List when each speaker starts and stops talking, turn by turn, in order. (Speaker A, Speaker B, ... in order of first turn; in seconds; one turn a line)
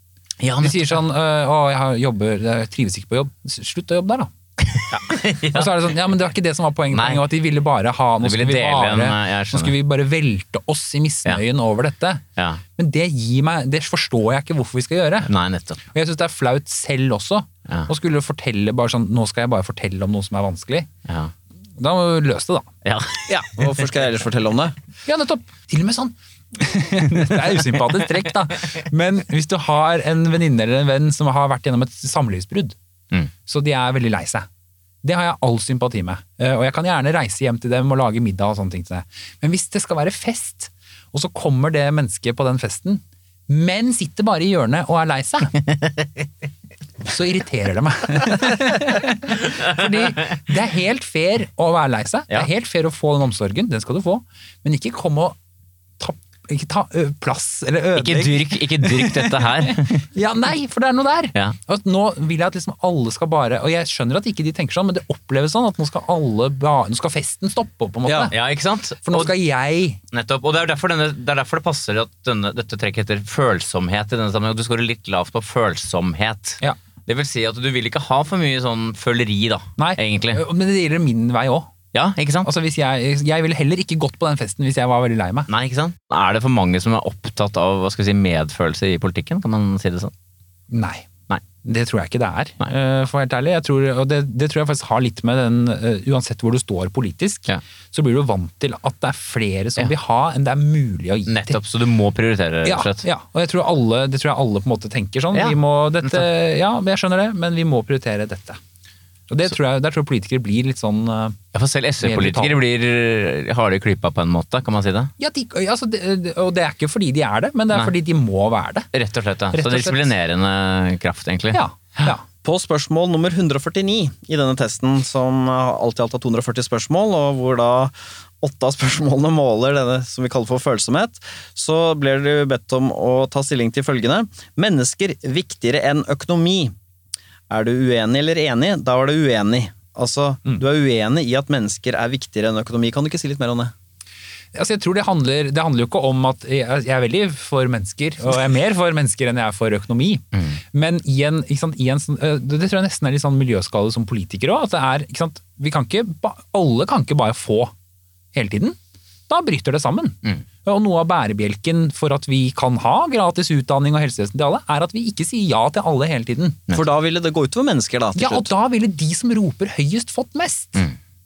Speaker A: 0.4-1.0
Speaker B: 0.6-4.3
Speaker A: 4.7-5.7
Speaker B: 5.0-12.2
Speaker A: 6.9-7.2
Speaker A: 8.2-9.7
Speaker B: 12.8-15.3
Speaker A: 15.3-15.8
Speaker B: 15.9-20.9
Speaker A: 21.1-21.3
Speaker B: 21.8-22.7
Speaker A: 22.8-23.3
Speaker C: 23.3-24.8
Speaker B: 25.0-32.8
Speaker B: 33.5-34.5
Speaker B: 35.0-45.6
Speaker B: 47.0-55.4
Speaker B: 56.0-68.3
Speaker A: 57.9-60.0
Speaker A: 68.3-69.3
Speaker B: 69.0-70.0
Speaker A: 70.1-80.4
Speaker B: 79.8-81.7
Speaker A: 81.9-82.5
Speaker B: 82.4-85.5
Speaker A: 85.5-90.1
Speaker B: 90.7-91.1
Speaker B: 91.6-101.6
Speaker A: 101.3-103.0
Speaker B: 102.6-108.6
Speaker A: 105.3-106.2
Speaker B: 109.3-111.4
Speaker A: 111.5-115.1
Speaker B: 112.0-112.6
Speaker B: 115.2-118.9
Speaker A: 118.9-121.6
Speaker B: 119.5-120.1
Speaker B: 121.5-122.2
Speaker C: 122.4-136.7
Speaker C: 137.5-143.7
Speaker B: 144.5-157.7
Speaker B: 158.3-158.8
Speaker B: 159.3-166.6
Speaker C: 166.7-168.5
Speaker B: 168.1-170.9